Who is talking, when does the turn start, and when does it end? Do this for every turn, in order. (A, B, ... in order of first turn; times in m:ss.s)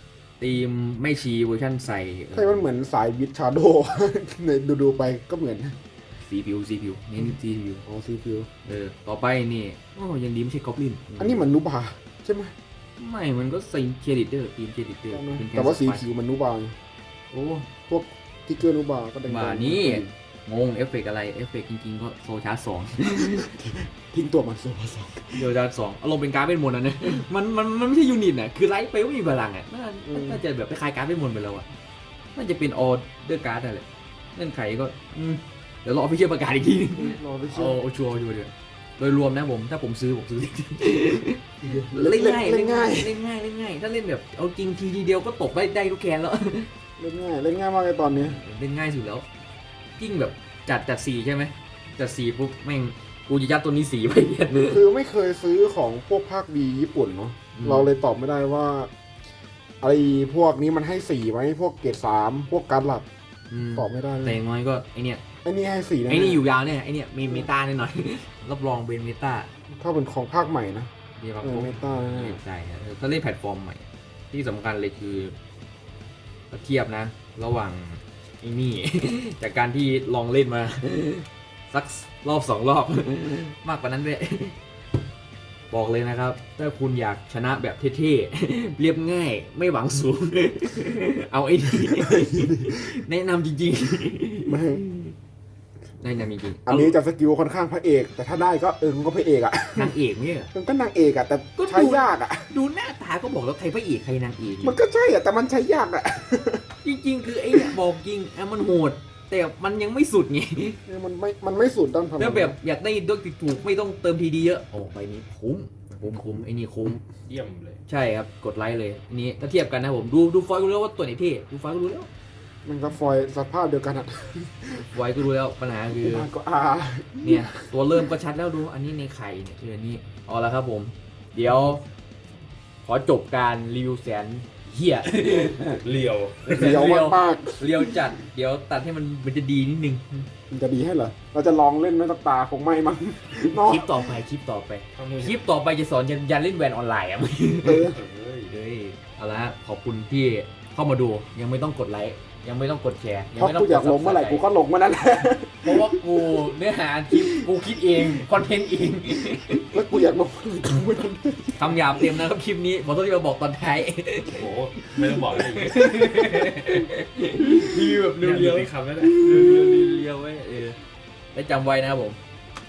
0:00.4-0:02.6 A
0:02.3-0:05.8 B
0:06.2-0:07.8 A
0:07.8-0:08.5 B
0:08.6-0:11.4 A
0:11.2-0:12.5 B
0:13.0-0:16.0 A
0:15.1-0:16.8 B
0:17.3-0:17.7 A
0:17.9-0:20.1 B
0:19.2-0:23.5 A
0:23.2-0:25.5 B
0:25.3-0:31.6 A
0:30.1-0:30.4 B
0:32.4-0:46.7 A
0:37.0-0:37.8 B
0:41.6-0:43.2 B
0:47.0-0:48.4 B
0:48.1-0:49.2 A
0:50.0-0:54.8 A
0:54.6-0:58.9 B
0:57.6-0:57.9 A
0:59.8-1:03.1 B
1:03.5-1:05.2 A
1:03.7-1:04.4 B
1:05.4-1:06.5 B
1:06.1-1:09.5 A
1:09.7-1:10.9 B
1:11.2-1:15.4 A
1:11.4-1:12.4 B
1:16.5-1:24.6 A
1:25.7-1:35.1 A
1:32.1-1:32.7 B
1:34.5-1:34.8 B
1:36.0-1:37.0 A
1:36.6-1:40.0 B
1:39.8-1:40.5 A
1:40.5-1:42.5 B
1:41.6-1:44.8 A
1:44.6-1:46.6 B
1:46.8-1:50.8 A
1:47.5-1:47.8 B
1:50.8-1:52.6 B
1:52.2-1:57.0 A
1:57.2-1:57.8 C
1:57.9-2:02.1 A
2:02.6-2:05.0 B
2:04.9-2:06.3 A
2:06.0-2:08.1 B
2:07.2-2:11.8 A
2:12.8-2:15.8 A
2:15.2-2:16.8 C
2:16.4-2:20.3 A
2:16.5-2:18.1 B
2:20.5-2:24.1 B
2:23.4-2:27.9 A
2:25.0-2:25.4 C
2:27.6-2:28.0 B
2:27.8-2:28.5 C
2:28.5-2:34.4 A
2:33.4-2:36.4 B
2:35.6-2:39.9 A
2:37.1-2:37.5 B
2:39.5-2:42.2 B
2:41.6-2:50.8 A
2:44.2-2:46.4 C
2:48.1-2:49.7 C
2:51.3-2:52.2 A